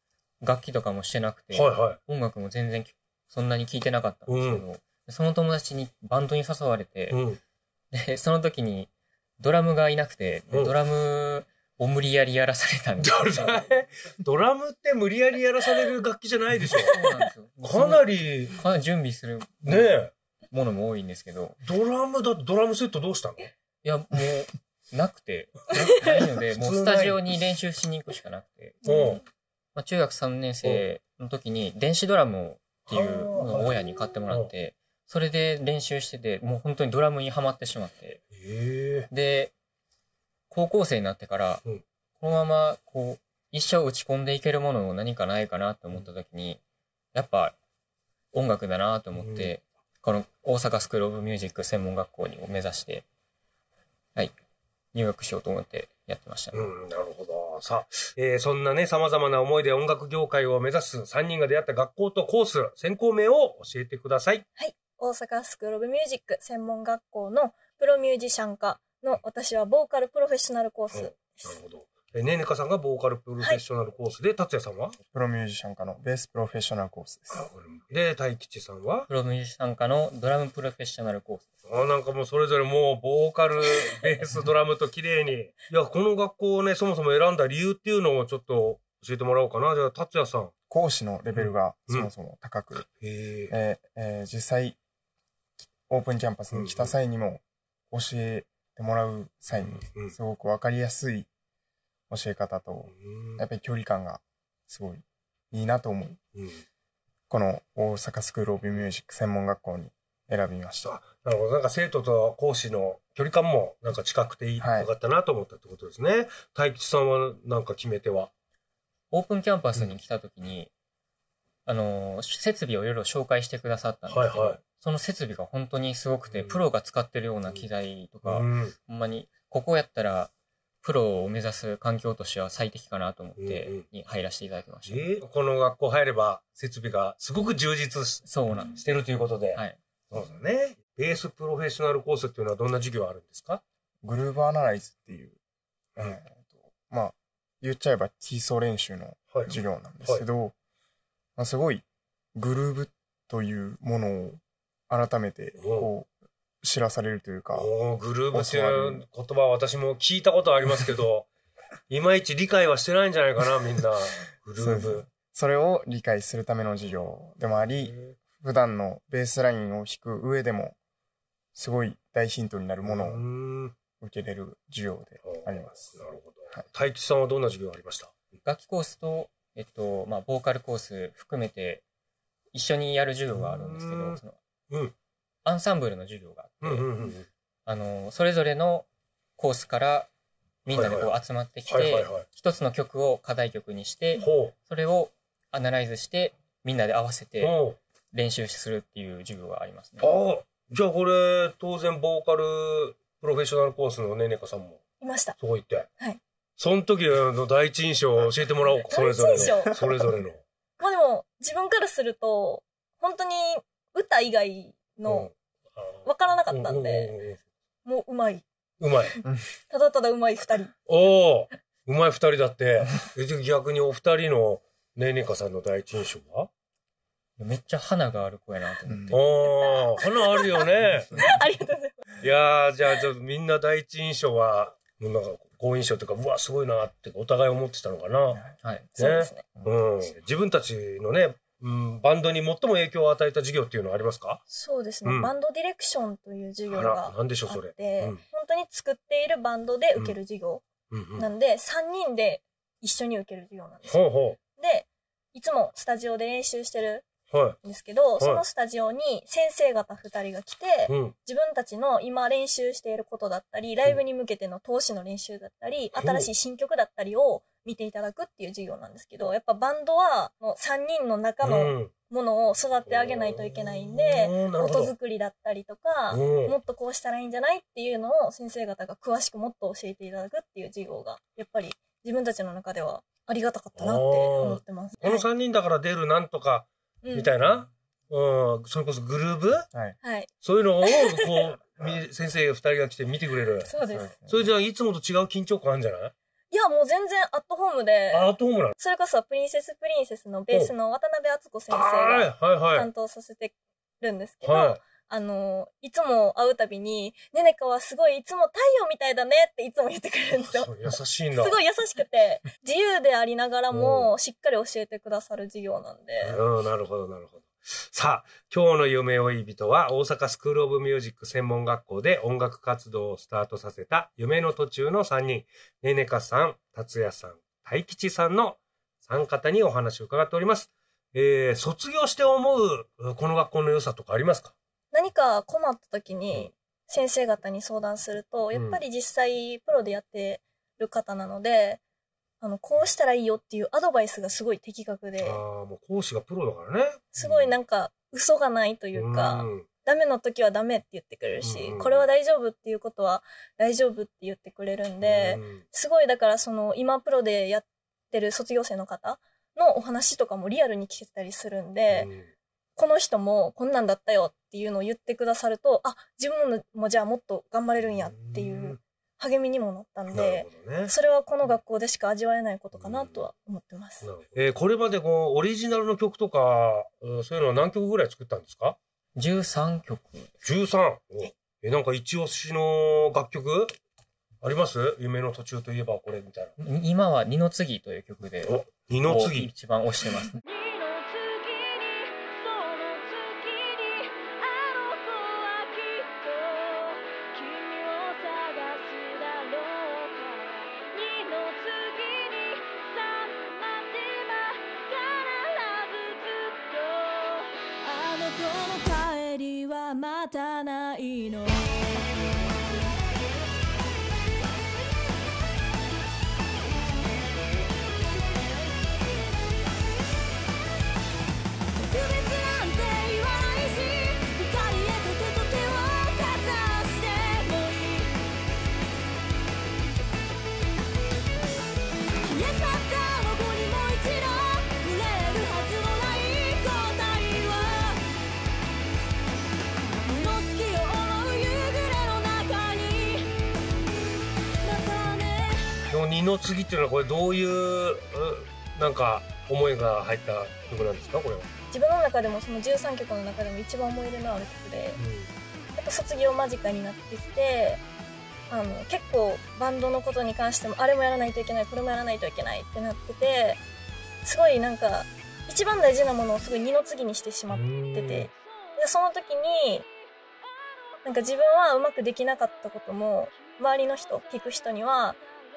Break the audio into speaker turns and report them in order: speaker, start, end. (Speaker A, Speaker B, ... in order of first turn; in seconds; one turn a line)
Speaker A: 0.4-7.2
Speaker B: 1.5-2.0
Speaker B: 4.2-4.7
Speaker B: 7.1-7.4
Speaker A: 7.9-13.6
Speaker B: 10.5-10.8
Speaker B: 13.0-17.0
Speaker A: 16.9-20.0
Speaker B: 17.6-18.6
Speaker B: 19.6-20.1
Speaker A: 20.5-21.6
Speaker B: 21.6-23.5
Speaker A: 23.8-29.2
Speaker B: 25.7-27.3
Speaker B: 28.8-29.2
Speaker C: 28.9-29.2
Speaker A: 29.8-38.2
Speaker B: 32.8-34.5
Speaker B: 38.3-39.1
Speaker A: 39.1-39.5
Speaker A: 40.5-41.6
Speaker A: 42.2-46.6
Speaker A: 47.1-47.5
Speaker A: 48.3-53.0
Speaker B: 49.1-49.5
Speaker A: 54.9-56.7
Speaker B: 56.5-64.4
Speaker C: 64.6-71.5
Speaker B: 70.9-75.0
Speaker D: 75.1-77.5
Speaker B: 77.3-79.1
Speaker A: 79.1-81.5
Speaker B: 81.7-90.5
Speaker D: 90.7-92.9
Speaker B: 91.3-92.1
Speaker B: 92.7-93.5
Speaker D: 93.5-94.8
Speaker D: 95.9-101.3
Speaker B: 96.5-97.0
Speaker B: 99.5-100.2
Speaker D: 102.1-106.2
Speaker B: 102.9-103.4
Speaker B: 106.3-106.6
Speaker D: 107.3-110.9
Speaker B: 110.8-118.3
Speaker D: 114.6-114.9
Speaker A: 119.1-120.7
Speaker A: 121.7-130.3
Speaker B: 124.1-124.6
Speaker B: 126.3-126.6
Speaker B: 128.2-128.8
Speaker A: 130.8-135.0
Speaker B: 133.4-133.9
Speaker B: 134.9-143.6
Speaker A: 138.3-138.7
Speaker D: 144.0-145.4
Speaker D: 146.0-150.6
Speaker B: 149.3-150.2
Speaker D: 151.4-151.8
Speaker D: 152.4-156.1
Speaker B: 155.6-155.9
Speaker D: 156.6-157.7
Speaker B: 157.5-161.3
Speaker D: 158.3-159.0
Speaker B: 161.9-165.1
Speaker D: 164.6-170.8
Speaker B: 167.8-168.2
Speaker D: 171.6-173.2
Speaker B: 172.8-173.8
Speaker D: 174.0-176.0
Speaker B: 175.2-178.4
Speaker A: 178.4-181.8
Speaker A: 182.5-184.4
Speaker B: 183.3-184.9
Speaker A: 185.4-186.8
Speaker B: 186.6-187.3
Speaker A: 187.7-188.9
Speaker A: 189.4-190.1
Speaker A: 190.7-197.5
Speaker B: 190.7-191.1
Speaker B: 191.7-192.2
Speaker B: 194.2-194.6
Speaker B: 197.4-197.8
Speaker A: 198.1-200.1
Speaker B: 200.0-204.8
Speaker C: 205.0-205.4
Speaker B: 205.4-205.9
Speaker B: 206.6-210.4
Speaker C: 208.8-209.8
Speaker C: 210.8-215.3
Speaker B: 215.1-217.4
Speaker C: 216.1-217.1
Speaker C: 217.8-218.4
Speaker B: 218.8-219.2
Speaker C: 219.7-220.8
Speaker B: 220.9-226.5
Speaker A: 227.4-229.2
Speaker D: 228.9-229.2
Speaker B: 229.1-231.2
Speaker C: 229.4-230.5
Speaker C: 231.2-232.0
Speaker B: 232.2-238.4
Speaker D: 238.3-238.6
Speaker A: 238.6-238.9
Speaker C: 239.0-239.4
Speaker B: 239.0-244.4
Speaker D: 239.6-239.8
Speaker C: 244.5-250.6
Speaker B: 245.1-245.3
Speaker B: 246.7-248.2
Speaker B: 250.9-251.3
Speaker C: 251.2-257.1
Speaker B: 253.9-254.4
Speaker B: 257.3-257.6
Speaker C: 257.6-285.2
Speaker B: 260.9-261.1
Speaker B: 265.9-266.3
Speaker B: 271.4-271.9
Speaker B: 272.9-274.9
Speaker B: 276.1-276.6
Speaker B: 283.8-289.6
Speaker C: 287.0-287.3
Speaker D: 289.7-290.0
Speaker C: 290.0-290.3
Speaker B: 290.4-293.7
Speaker C: 290.8-291.2
Speaker C: 293.6-294.1
Speaker D: 293.8-294.5
Speaker B: 294.3-296.1
Speaker C: 296.5-298.3
Speaker B: 298.1-298.8
Speaker C: 298.8-310.8
Speaker B: 301.7-302.9
Speaker B: 304.4-304.8
Speaker B: 310.3-311.6
Speaker C: 311.3-316.3
Speaker B: 313.7-314.1
Speaker B: 316.2-334.6
Speaker C: 334.9-341.8
Speaker B: 338.5-338.8
Speaker C: 342.4-345.4
Speaker B: 345.2-347.6
Speaker C: 347.1-362.1
Speaker B: 348.9-349.7
Speaker B: 351.4-352.1
Speaker B: 355.0-355.6
Speaker B: 361.9-362.3
Speaker C: 362.8-374.1
Speaker B: 367.8-368.8
Speaker B: 370.1-370.9
Speaker B: 372.7-373.2
Speaker B: 374.0-378.8
Speaker A: 379.2-380.3
Speaker B: 380.4-383.7
Speaker B: 384.4-386.6
Speaker A: 386.6-390.4
Speaker B: 388.4-389.5
Speaker E: 390.4-411.9
Speaker E: 421.8-428.1
Speaker E: 432.3-438.0
Speaker E: 440.1-443.3
Speaker E: 444.6-445.8
Speaker B: 445.9-451.5
Speaker C: 451.7-455.0
Speaker B: 454.9-455.3
Speaker C: 455.7-457.8
Speaker C: 458.5-463.6
Speaker C: 464.2-469.9
Speaker B: 467.5-468.3
Speaker C: 471.0-475.2